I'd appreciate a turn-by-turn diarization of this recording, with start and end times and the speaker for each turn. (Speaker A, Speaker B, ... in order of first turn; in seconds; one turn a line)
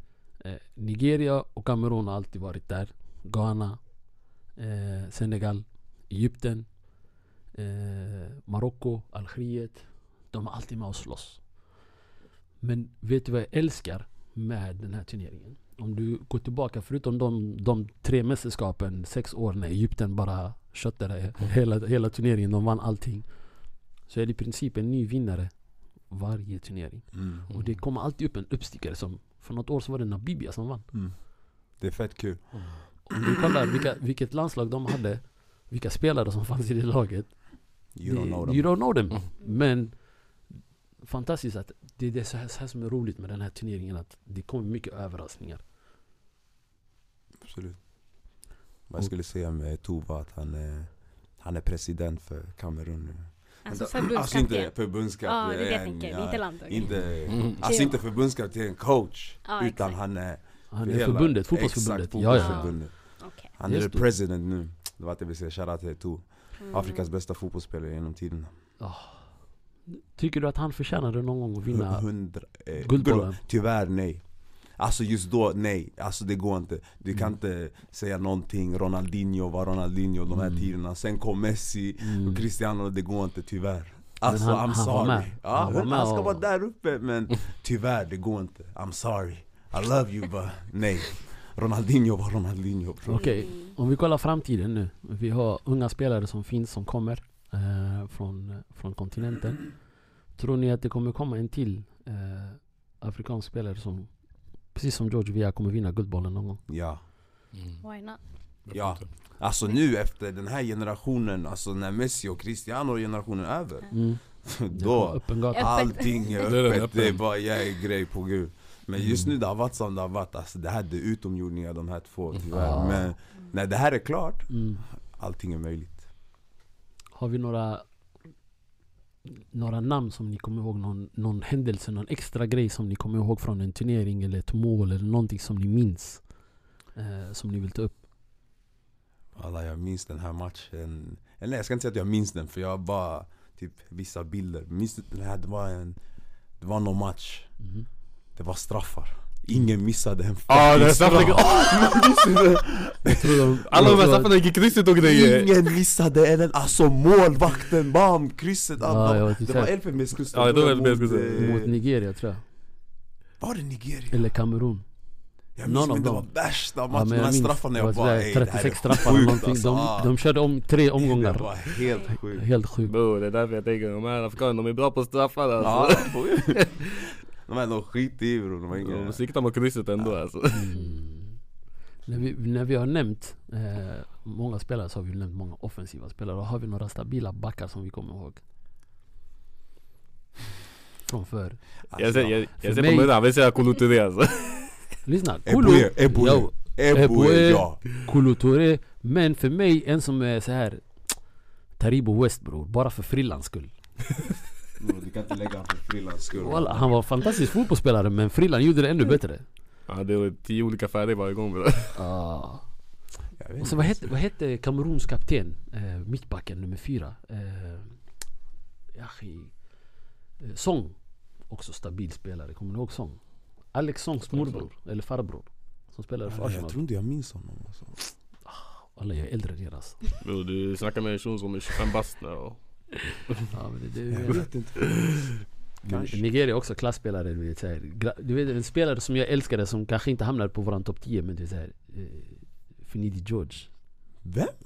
Speaker A: 0.4-3.8
Speaker A: 4.6-6.7
Speaker A: 7.5-11.4
Speaker A: 12.6-23.3
Speaker A: 24.1-25.5
Speaker A: 26.1-30.9
Speaker B: 27.1-27.4
Speaker B: 31.8-32.6
Speaker A: 33.1-37.4
Speaker B: 38.0-38.7
Speaker A: 38.0-40.0
Speaker A: 41.0-45.6
Speaker B: 47.4-47.8
Speaker B: 48.9-62.9
Speaker C: 53.7-58.0
Speaker D: 57.3-57.6
Speaker C: 59.5-60.0
Speaker A: 60.7-62.7
Speaker C: 62.3-63.5
Speaker B: 63.5-68.5
Speaker A: 63.7-64.1
Speaker C: 66.6-67.1
Speaker A: 68.8-69.3
Speaker A: 69.9-72.1
Speaker B: 71.7-74.2
Speaker A: 72.8-73.4
Speaker B: 74.8-93.3
Speaker A: 80.3-80.7
Speaker A: 82.0-82.5
Speaker A: 84.3-86.4
Speaker A: 93.1-99.7
Speaker C: 93.1-93.8
Speaker A: 100.4-104.1
Speaker A: 104.7-106.6
Speaker B: 106.7-107.0
Speaker C: 107.8-108.2
Speaker D: 108.7-109.0
Speaker B: 108.7-124.5
Speaker A: 113.9-115.8
Speaker C: 115.5-116.4
Speaker D: 116.4-117.2
Speaker A: 122.5-123.1
Speaker A: 124.5-124.8
Speaker B: 125.1-126.0
Speaker A: 127.2-127.8
Speaker A: 129.3-136.2
Speaker A: 137.0-138.0
Speaker B: 139.3-146.0
Speaker B: 146.6-147.5
Speaker A: 147.6-147.9
Speaker B: 148.4-154.1
Speaker D: 150.5-151.9
Speaker A: 153.1-154.3
Speaker D: 153.7-155.8
Speaker B: 155.0-161.7
Speaker A: 158.8-159.7
Speaker D: 160.3-161.6
Speaker A: 161.3-162.4
Speaker B: 163.4-164.3
Speaker A: 164.1-164.8
Speaker B: 165.6-170.1
Speaker A: 165.6-166.3
Speaker A: 166.9-171.7
Speaker B: 171.0-172.5
Speaker A: 172.3-172.9
Speaker D: 172.9-176.6
Speaker B: 175.6-179.2
Speaker D: 178.8-180.8
Speaker A: 180.5-181.4
Speaker A: 182.1-188.4
Speaker A: 191.1-191.6
Speaker B: 191.9-192.4
Speaker D: 192.0-194.7
Speaker A: 192.6-193.1
Speaker A: 195.1-200.8
Speaker B: 195.4-197.8
Speaker A: 201.8-203.7
Speaker B: 204.8-206.9
Speaker A: 206.4-209.4
Speaker D: 209.9-212.0
Speaker A: 211.9-212.7
Speaker B: 213.4-214.1
Speaker A: 213.6-218.0
Speaker A: 218.9-219.5
Speaker A: 220.4-221.0
Speaker A: 221.5-223.2
Speaker A: 223.7-226.8
Speaker D: 224.3-224.7
Speaker B: 226.3-228.0
Speaker A: 228.4-230.0
Speaker D: 230.2-232.6
Speaker A: 233.5-234.5
Speaker B: 234.1-235.2
Speaker A: 235.8-243.7
Speaker B: 235.9-236.2
Speaker B: 244.2-244.6